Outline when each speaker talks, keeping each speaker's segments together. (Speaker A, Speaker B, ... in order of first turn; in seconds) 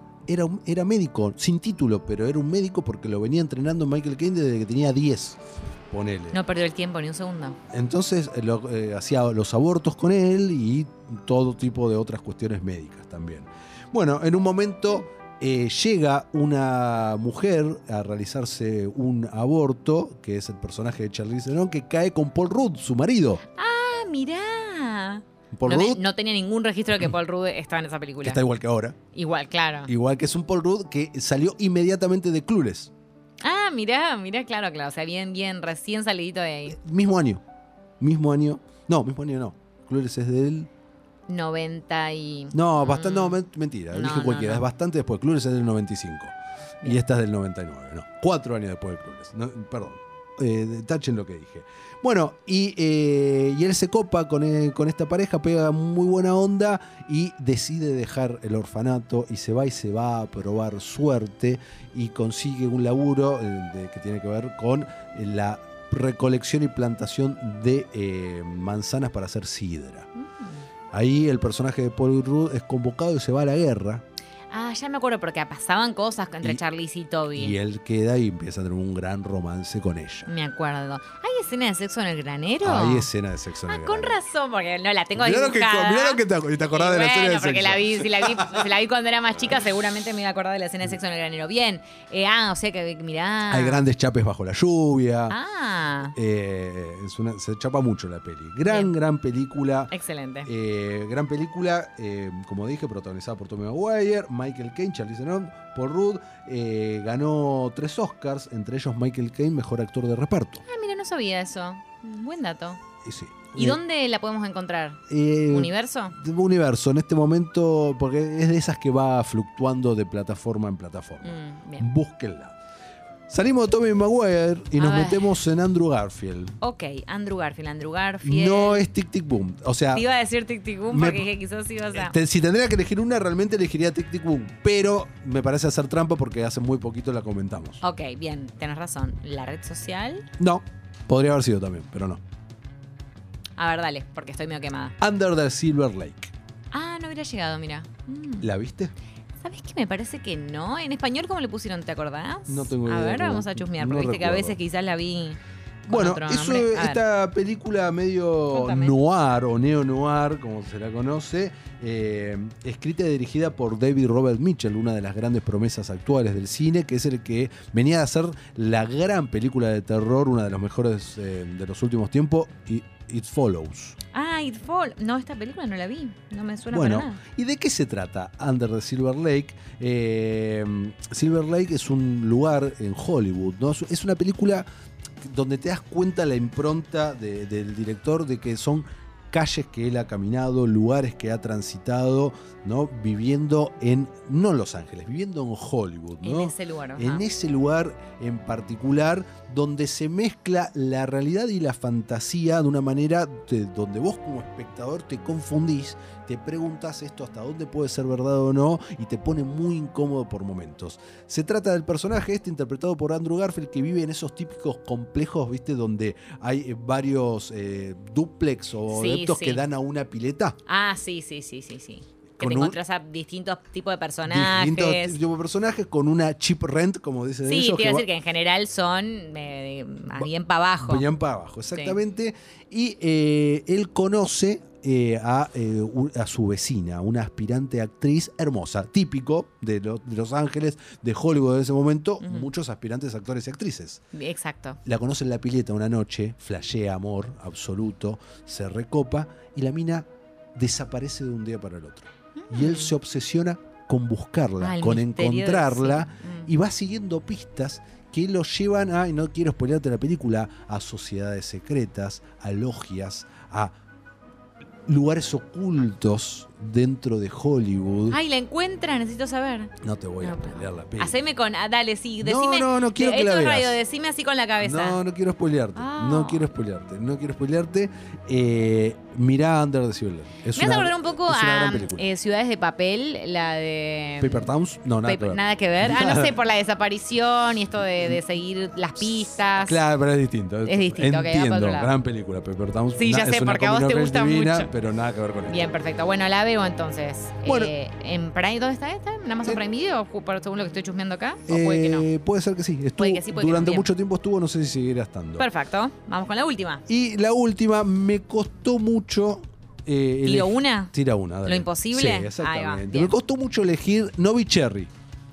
Speaker A: 0.3-6.4, 7.7-23.4, 25.5-26.0, 28.2-29.0, 29.9-32.9, 36.7-37.4, 38.0-40.7, 42.5-70.1, 70.9-74.0, 77.3-80.3, 82.6-84.2, 85.1-88.7, 93.5-95.4, 96.0-99.9, 100.5-110.6, 113.0-113.8, 115.1-122.5, 123.3-126.6, 128.2-130.0, 130.9-131.3, 131.9-137.8, 140.4-142.2, 145.0-146.3, 148.4-148.9, 152.5-154.6, 155.8-173.9, 176.7-184.7, 185.2-220.6, 222.4-222.8, 224.2-228.1, 230.8-244.0, 244.8-263.7, 264.9-268.2, 269.8-271.2, 272.2-273.8, 274.6-282.1, 284.2-286.4, 289.0-295.8, 297.4-297.7, 301.5-305.5, 306.9-314.9
Speaker B: 6.3-7.6, 23.5-28.4, 29.1-29.9, 33.4-36.8, 41.3-43.4, 43.9-44.6, 70.2-70.6, 74.5-77.5, 80.3-83.1, 83.7-93.8, 95.3-96.1, 98.6-98.9, 99.9-100.5, 110.6-112.8, 113.5-116.2, 121.2-121.9, 124.8-125.3, 126.6-128.9, 129.9-132.2, 137.8-140.3, 143.6-145.0, 146.7-148.5, 149.4-157.0, 158.5-158.9, 174.1-177.2, 196.2-197.2, 218.9-219.6, 220.7-225.2, 227.4-231.1, 242.2-242.5, 244.1-244.8, 252.3-252.9, 254.6-256.5, 268.1-275.0, 275.7-276.5, 280.5-284.5, 285.0-289.8, 290.6-291.9, 293.0-294.7, 295.5-302.1, 303.0-303.9, 305.4-306.8, 310.2-313.1